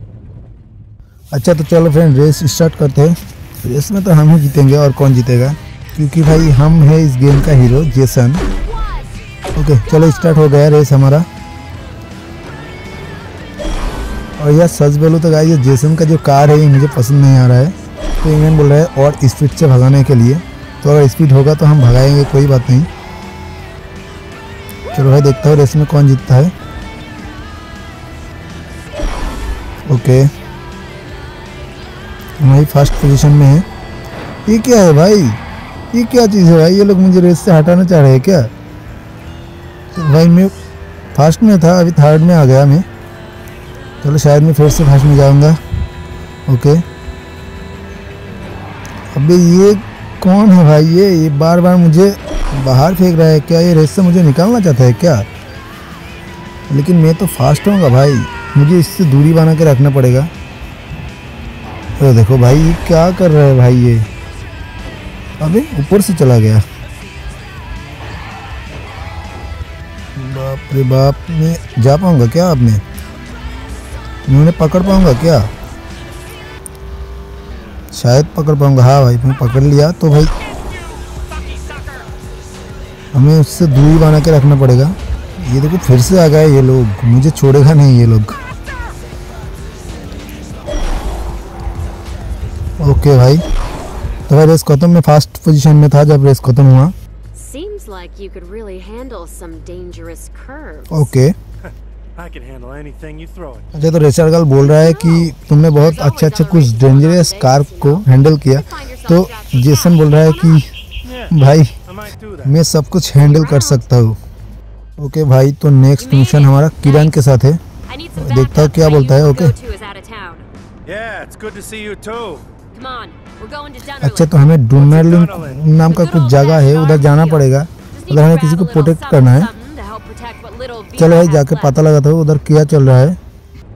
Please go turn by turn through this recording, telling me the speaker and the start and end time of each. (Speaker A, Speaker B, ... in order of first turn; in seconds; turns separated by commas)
Speaker A: 1.3-8.4, Speaker B: 8.7-9.2, Speaker A: 9.5-11.3, Speaker A: 14.4-22.9, Speaker A: 24.9-26.5, Speaker A: 29.9-30.3, Speaker A: 32.4-33.7, Speaker A: 34.5-35.4, Speaker A: 35.9-38.5, Speaker A: 39.9-40.5, Speaker A: 41.1-42.9, Speaker A: 44.0-45.6, Speaker A: 46.5-46.8, Speaker A: 49.1-55.3, Speaker A: 56.7-60.3, Speaker A: 62.0-64.1, Speaker A: 65.4-66.7, Speaker A: 70.2-72.8, Speaker A: 74.3-75.5, Speaker A: 77.9-80.3, Speaker C: 81.4-82.1, Speaker A: 83.1-88.4, Speaker A: 92.8-93.4, Speaker A: 94.3-97.0, Speaker B: 97.3-101.1, Speaker A: 100.9-101.3, Speaker C: 102.2-103.7, Speaker A: 103.7-110.7, Speaker B: 104.8-110.6, Speaker A: 111.3-111.8, Speaker C: 111.9-112.5, Speaker A: 112.4-114.2, Speaker B: 113.3-113.8, Speaker A: 115.0-117.6, Speaker B: 116.0-117.2, Speaker B: 117.9-120.5, Speaker A: 118.2-119.5, Speaker C: 120.9-122.5, Speaker B: 122.7-124.3, Speaker A: 124.0-129.5, Speaker C: 124.9-125.6, Speaker B: 125.8-131.8, Speaker A: 131.0-133.2